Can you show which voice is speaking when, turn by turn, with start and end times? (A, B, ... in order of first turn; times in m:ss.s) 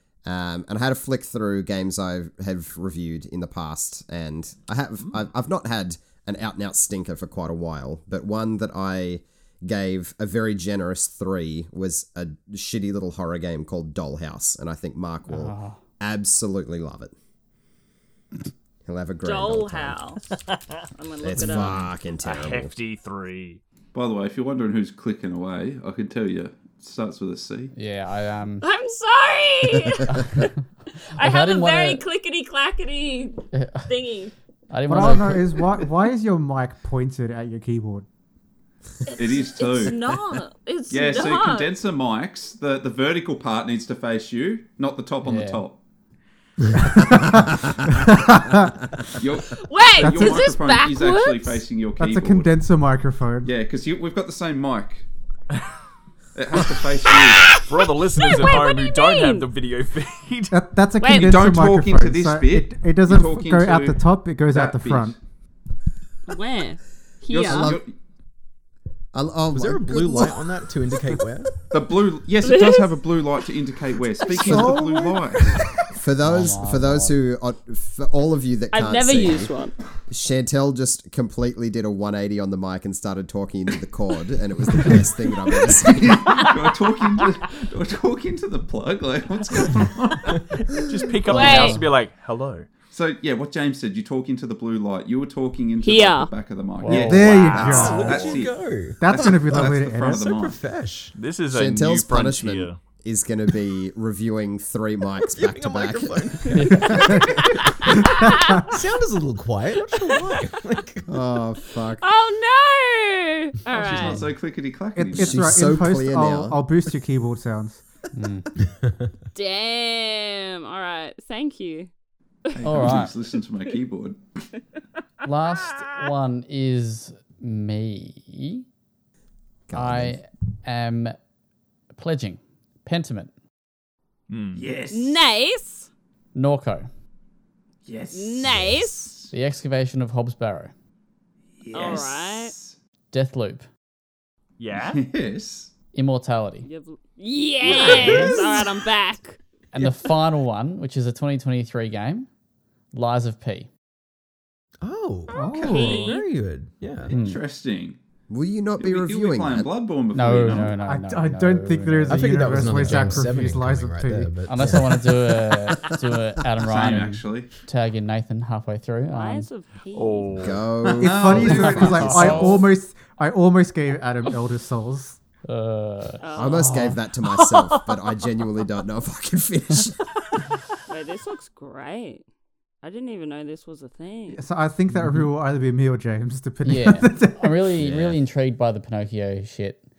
0:00.2-0:17.1 A
0:15.3-0:15.8 B
0:18.8-0:20.0 A
0:19.2-0:20.2 C
0:20.5-0:20.8 D
0:21.0-0:21.9 C
0:21.2-0:22.7 A
0:22.2-0:23.6 D
0:23.9-0:27.7 E
0:27.8-0:28.7 B
0:28.6-0:30.5 C
0:30.2-0:30.5 B
0:31.2-0:32.0 B
0:31.2-0:34.3 C
0:33.5-0:33.9 B
0:34.7-0:35.7 B
0:34.9-0:38.1 F
0:39.1-0:41.7 C
0:39.2-0:40.0 E
0:40.9-0:45.8 E
0:45.2-0:45.7 B
0:46.7-0:48.9 F
0:49.2-0:52.5 E
0:49.6-0:51.7 C
0:50.0-0:50.6 F
0:52.0-0:53.5 F
0:53.4-0:55.1 E
0:56.4-0:57.6 E
0:57.5-1:00.6 D
0:57.9-0:59.5 C
1:00.5-1:05.2 F
1:01.0-1:01.4 C
1:01.1-1:05.2 E
1:06.3-1:07.8 C
1:07.3-1:07.9 E
1:07.3-1:07.8 A
1:09.1-1:10.5 A
1:09.5-1:11.6 G
1:11.7-1:15.7 E
1:12.4-1:13.0 C
1:14.3-1:15.2 F
1:14.4-1:14.8 A
1:15.9-1:19.5 A
1:16.2-1:17.2 B
1:18.7-1:19.8 C
1:20.1-1:26.4 A
1:25.9-1:31.7 E
1:30.8-1:32.7 D
1:31.3-1:31.8 C
1:32.9-1:40.6 E
1:35.8-1:36.3 C
1:36.8-1:38.3 B
1:36.9-1:38.3 F
1:37.5-1:39.1 G
1:39.0-1:40.3 F
1:40.1-1:41.1 G
1:41.2-1:42.8 D
1:41.5-1:46.6 A
1:45.2-1:47.1 G
1:46.5-1:47.2 B
1:46.7-1:48.8 F
1:46.8-1:48.3 C
1:48.7-1:51.2 G
1:49.9-1:50.5 C
1:51.1-1:52.1 A
1:52.0-1:54.3 C
1:53.7-1:55.6 E
1:55.0-1:57.8 F
1:55.1-1:56.6 A
1:58.1-1:58.5 B
1:58.8-1:59.1 G
1:59.4-2:01.9 C
2:02.5-2:03.0 C
2:02.5-2:04.2 E
2:02.6-2:03.1 B
2:05.2-2:08.6 B
2:09.7-2:10.2 A
2:09.7-2:11.2 B
2:12.0-2:13.3 B
2:14.3-2:14.6 D
2:14.6-2:15.3 E
2:14.9-2:15.9 C
2:16.4-2:16.9 B
2:17.9-2:19.3 E
2:18.1-2:19.1 C
2:19.3-2:20.7 B
2:21.6-2:22.8 E
2:21.7-2:22.6 C
2:23.1-2:23.7 B
2:24.6-2:25.0 D
2:24.7-2:25.7 E
2:25.9-2:26.7 B
2:26.6-2:29.4 C
2:27.6-2:28.6 E
2:27.8-2:28.2 D
2:29.7-2:32.3 B
2:32.9-2:33.7 B
2:34.8-2:37.1 G
2:35.3-2:36.1 F
2:35.3-2:36.2 C
2:35.4-2:36.2 E
2:37.1-2:38.0 E
2:37.1-2:37.4 B
2:38.3-2:39.7 A
2:38.8-2:40.8 E
2:40.1-2:43.2 B
2:40.6-2:44.8 F
2:42.1-2:45.3 G
2:44.4-2:49.5 B
2:45.9-2:46.4 A
2:46.6-2:47.5 E
2:49.1-2:50.6 C
2:49.9-2:50.6 D
2:50.4-2:52.5 A
2:50.8-2:52.6 E
2:51.0-2:55.2 F
2:51.4-2:52.7 B
2:55.5-2:57.0 B
2:56.2-2:56.9 C
2:56.4-3:00.0 A
3:00.9-3:02.2 C
3:02.8-3:04.4 C
3:04.3-3:07.8 F
3:06.6-3:09.8 B